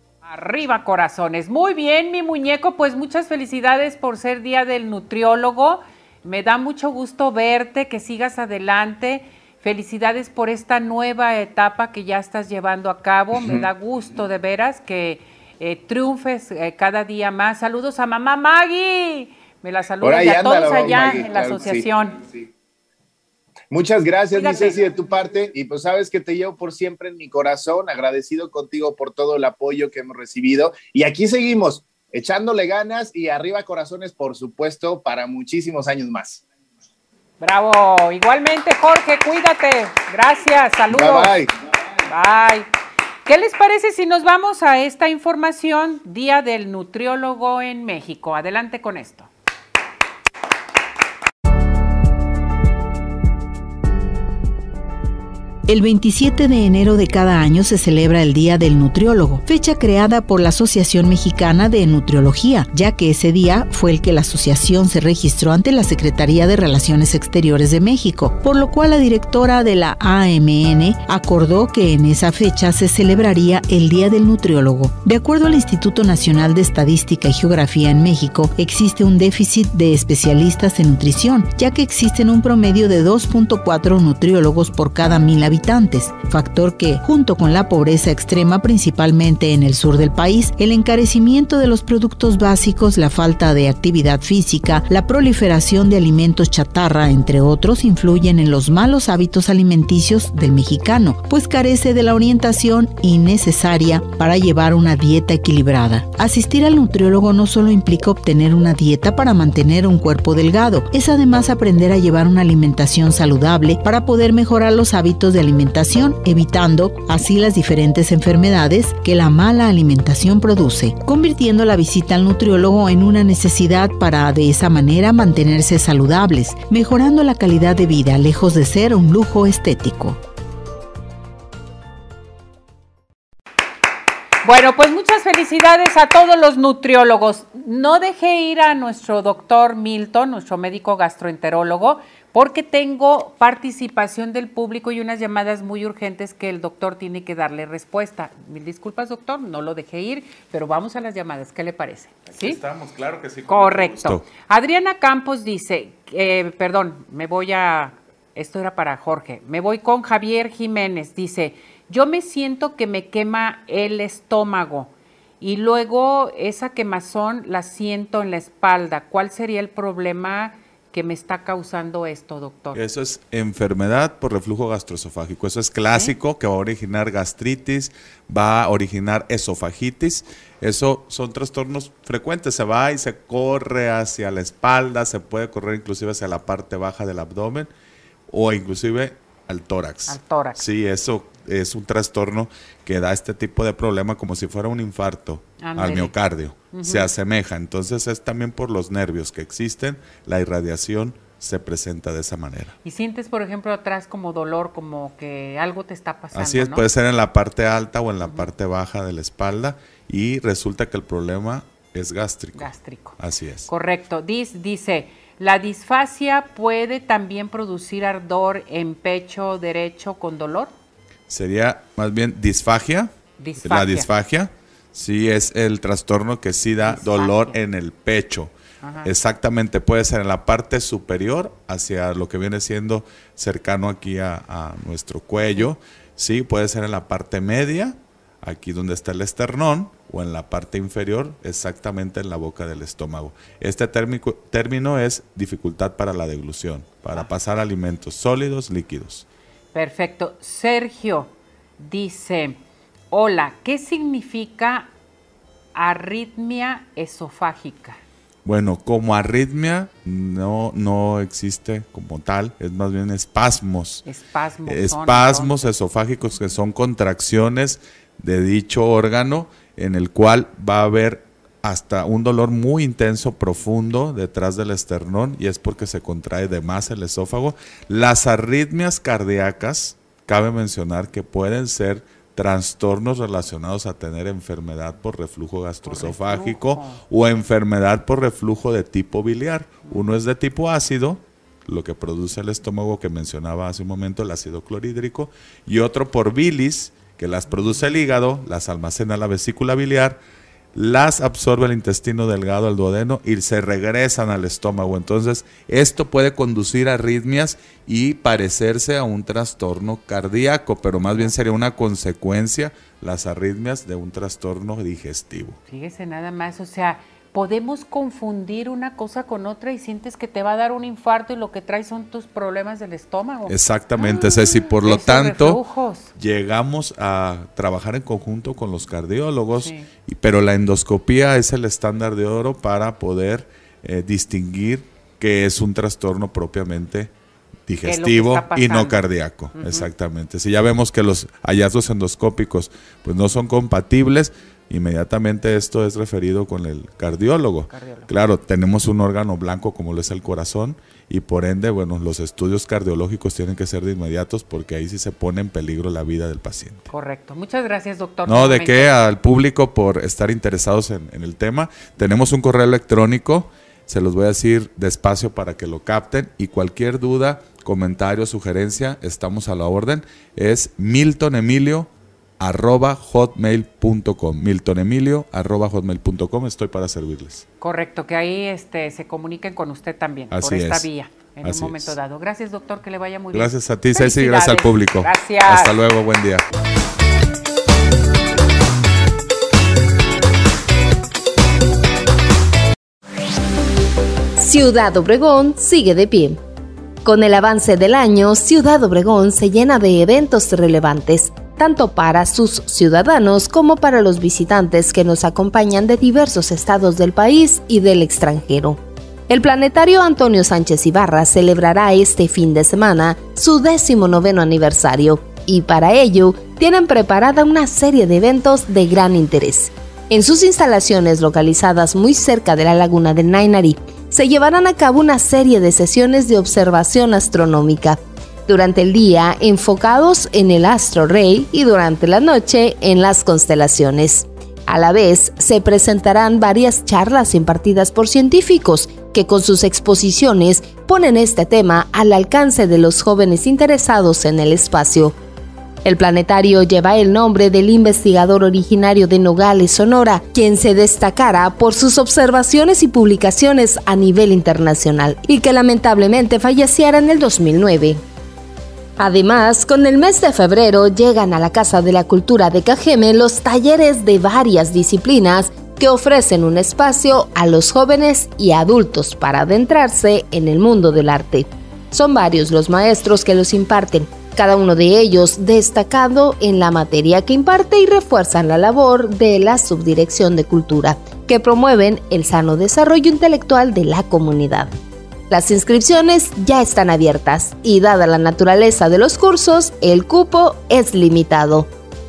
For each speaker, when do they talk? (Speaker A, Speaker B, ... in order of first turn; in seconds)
Speaker A: 0.2-22.2, 24.3-24.8, 37.4-41.3, 42.1-42.7, 43.2-49.3, 134.4-152.6, 153.5-172.8, 190.1-190.6, 195.6-196.1, 196.7-197.1, 202.8-206.8, 208.2-208.5, 212.6-220.7, 223.4-224.1, 226.8-227.6, 228.8-229.1, 249.7-252.6, 253.1-254.9, 255.7-258.0, 264.0-265.7, 285.8-287.0, 315.7-326.1, 329.6-329.9, 337.8-339.0, 339.5-339.9, 347.7-348.1, 356.9-358.9, 377.6-385.8
Speaker B: 20.0-22.4, 23.7-36.4, 40.9-41.5
Speaker C: 55.7-130.2
Speaker D: 152.3-154.2, 172.7-187.7, 188.3-202.7, 206.3-213.7, 221.3-223.1, 223.6-228.5, 229.0-249.2, 258.4-264.0, 264.6-300.2, 300.7-315.6, 323.5-325.6, 326.1-337.1, 337.7-356.9, 358.2-377.4, 380.3-380.9, 381.4-381.9, 383.3-386.4
Speaker E: 394.4-396.4, 397.0-445.1, 445.8-458.0, 459.0-484.7, 485.3-491.7